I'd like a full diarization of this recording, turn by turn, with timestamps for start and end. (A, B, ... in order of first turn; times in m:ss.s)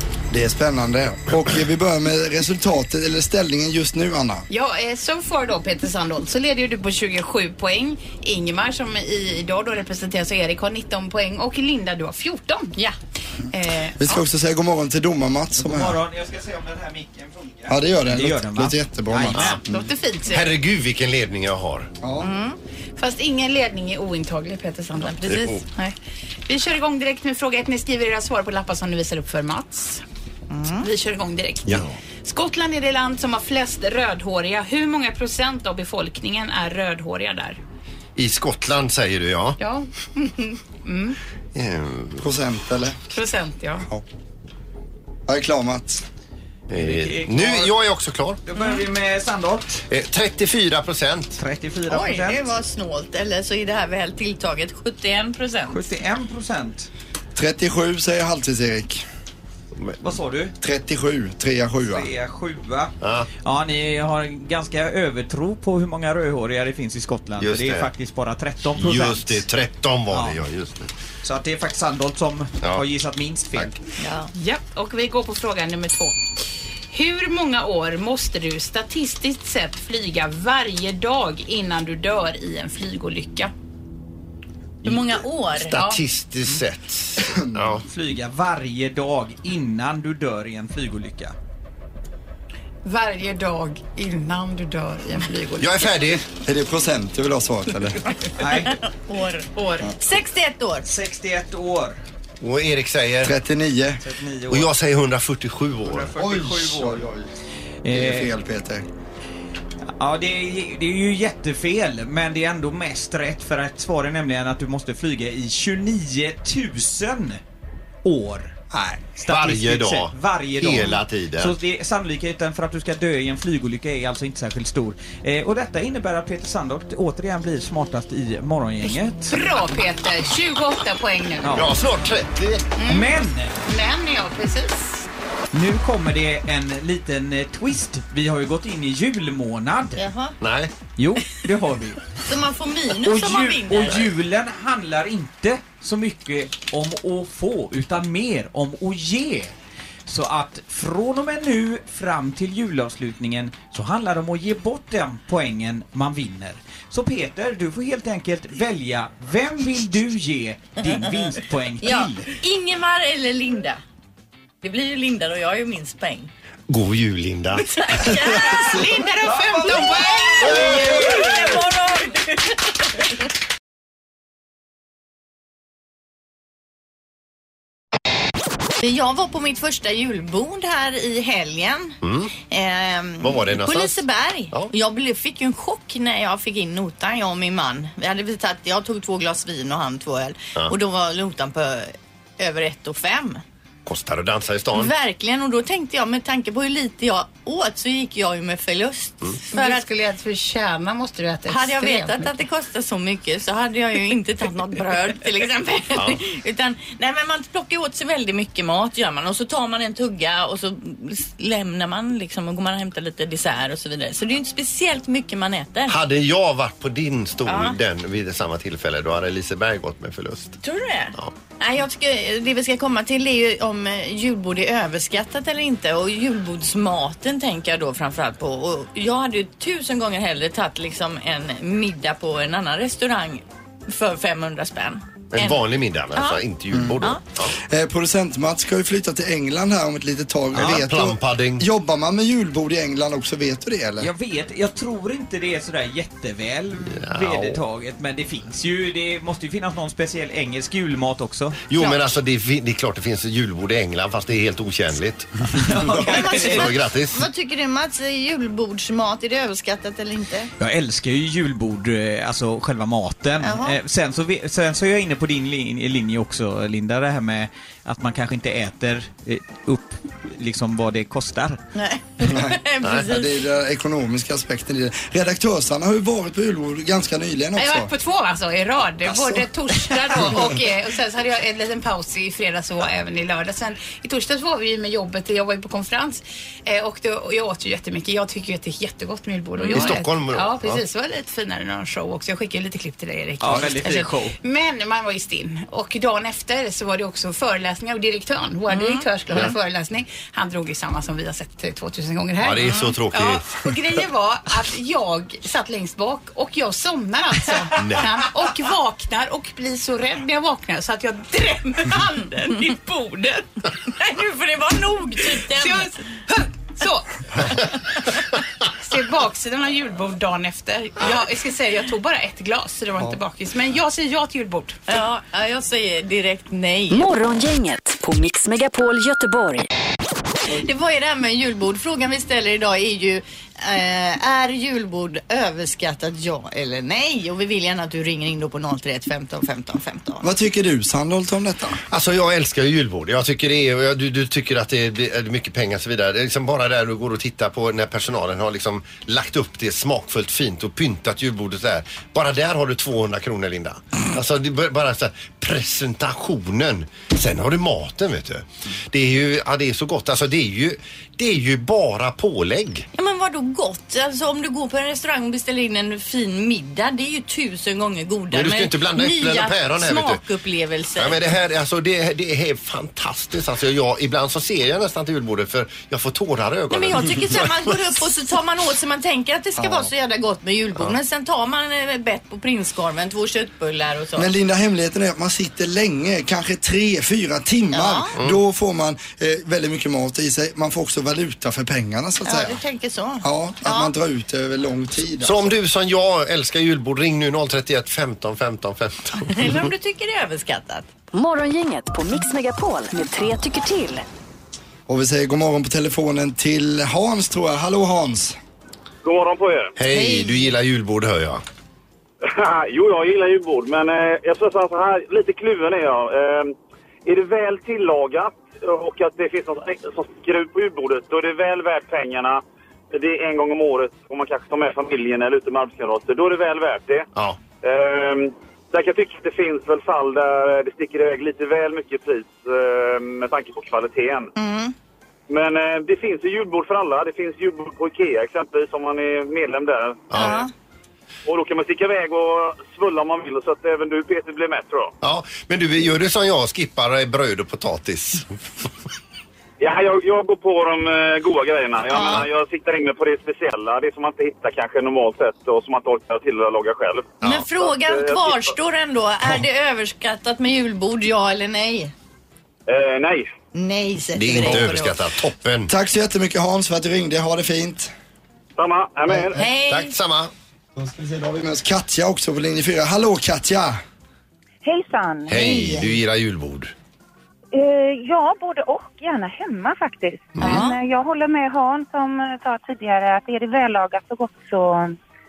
0:00.3-0:04.4 A
0:04.5-0:13.0 B
0:13.5-0:14.2 B
0:14.0-0:16.0 A
0:15.6-0:19.6 C
0:17.7-0:19.9 A
0:19.3-0:19.6 D
0:19.7-0:20.0 E
0:19.9-0:20.4 B
0:20.3-0:21.9 D
0:22.0-0:22.3 A
0:22.2-0:22.6 E
0:23.0-0:25.9 B
0:25.0-0:25.6 E
0:25.3-0:25.6 D
0:26.5-0:30.0 B
0:30.5-0:30.9 E
0:30.8-0:37.6 B
0:31.7-0:32.0 D
0:38.2-0:39.6 D
0:39.6-0:41.2 B
0:41.5-0:42.2 D
0:42.2-0:43.0 A
0:43.1-0:43.9 B
0:45.3-0:46.0 A
0:46.7-0:48.4 D
0:46.7-0:47.7 C
0:48.4-0:49.8 C
0:49.9-0:51.4 D
0:51.4-0:52.5 C
0:51.9-0:55.8 E
0:55.7-0:56.9 C
0:57.4-0:59.0 A
1:00.0-1:00.5 C
1:00.6-1:02.1 A
1:01.9-1:09.4 C
1:03.0-1:03.3 D
1:07.4-1:07.9 D
1:08.8-1:10.9 D
1:10.1-1:10.4 C
1:11.2-1:13.8 C
1:14.0-1:14.3 E
1:14.3-1:16.4 B
1:16.9-1:23.5 B
1:24.8-1:25.8 E
1:24.8-1:27.8 D
1:27.2-1:27.6 A
1:27.9-1:31.3 C
1:32.8-1:35.9 B
1:35.6-1:36.2 D
1:36.3-1:38.0 A
1:38.4-1:38.8 C
1:38.4-1:40.8 E
1:39.5-1:39.9 B
1:40.8-1:42.0 C
1:42.4-1:43.3 D
1:43.2-1:44.0 A
1:44.0-1:44.7 C
1:44.5-1:46.1 D
1:45.8-1:47.0 C
1:46.1-1:47.3 A
1:47.8-1:48.3 C
1:47.9-1:48.8 A
1:50.0-1:57.4 C
1:58.0-2:09.4 C
1:59.3-2:01.6 D
2:08.9-2:11.7 B
2:11.4-2:11.7 C
2:11.6-2:12.7 D
2:12.8-2:13.1 B
2:12.8-2:13.6 C
2:13.6-2:15.1 B
2:15.5-2:20.0 C
2:20.0-2:20.4 E
2:20.4-2:20.7 D
2:21.0-2:22.1 C
2:22.2-2:24.1 E
2:23.0-2:29.5 C
2:30.1-2:42.3 C
2:41.8-2:43.8 E
2:44.6-2:46.3 E
2:46.7-2:48.2 D
2:47.8-2:49.0 E
2:48.2-2:51.2 B
2:49.2-2:51.5 C
2:49.6-2:52.5 E
2:58.8-3:13.4 E
3:02.0-3:02.3 D
3:03.2-3:04.0 D
3:13.8-3:14.9 D
3:14.7-3:19.8 E
3:19.5-3:22.3 B
3:21.5-3:36.0 E
3:25.9-3:26.2 D
3:35.9-3:40.6 D
3:37.4-3:37.8 E
3:40.6-3:55.6 E
3:55.3-3:57.5 D
3:56.1-3:56.4 E
3:56.7-3:57.0 A
3:57.5-4:04.1 A
4:00.5-4:01.6 D
4:04.0-4:11.6 C
4:07.0-4:07.6 D
4:11.7-4:17.2 D
4:11.7-4:12.1 E
4:15.6-4:16.7 C
4:16.0-4:20.5 E
4:20.6-4:31.6 C
4:23.4-4:23.8 E
4:31.7-4:33.4 E
4:32.2-4:37.9 A
4:37.6-5:13.6 B
4:39.1-4:39.4 A
4:49.6-4:49.9 E
4:49.7-4:50.8 D
4:53.4-4:54.3 C
4:58.7-4:59.5 E
5:02.4-5:03.6 D
5:07.8-5:08.1 D
5:14.0-5:16.0 E
5:15.4-5:17.6 B
5:18.7-5:24.8 B
5:24.9-5:27.1 E
5:26.9-5:29.7 F
5:30.5-5:40.2 E
5:40.2-5:41.8 A
5:41.9-6:02.9 D
6:02.9-6:11.2 E
6:08.3-6:10.2 D
6:11.0-6:17.8 D
6:16.7-6:24.3 E
6:19.6-6:19.9 A
6:24.2-6:32.6 A
6:27.7-6:28.1 E
6:32.2-6:33.9 E
6:33.2-6:35.5 A
6:35.2-6:39.6 D
6:39.2-6:40.9 E
6:41.1-6:44.0 F
6:44.9-6:48.4 A
6:49.0-6:49.7 G
6:49.8-6:51.4 D
6:49.9-6:50.5 E
6:52.2-7:07.1 G
7:07.6-7:14.3 G
7:14.4-7:14.7 E
7:15.3-7:20.4 G
7:20.1-7:20.4 D
7:20.2-7:20.5 E
7:21.2-7:24.9 G
7:25.0-7:28.4 D
7:29.6-7:38.5 G
7:31.9-7:32.3 E
7:37.2-7:41.9 E
7:42.7-7:43.3 G
7:43.5-7:45.0 E
7:44.1-7:45.7 D
7:45.7-7:47.9 A
7:48.6-7:49.4 G
7:49.0-7:49.5 A
7:49.3-7:49.9 E
7:49.6-7:50.3 D
7:50.7-7:53.8 A
7:54.6-7:55.8 H
7:55.3-7:56.7 D
7:55.4-7:55.8 A
7:57.5-8:04.9 H
8:00.4-8:00.8 E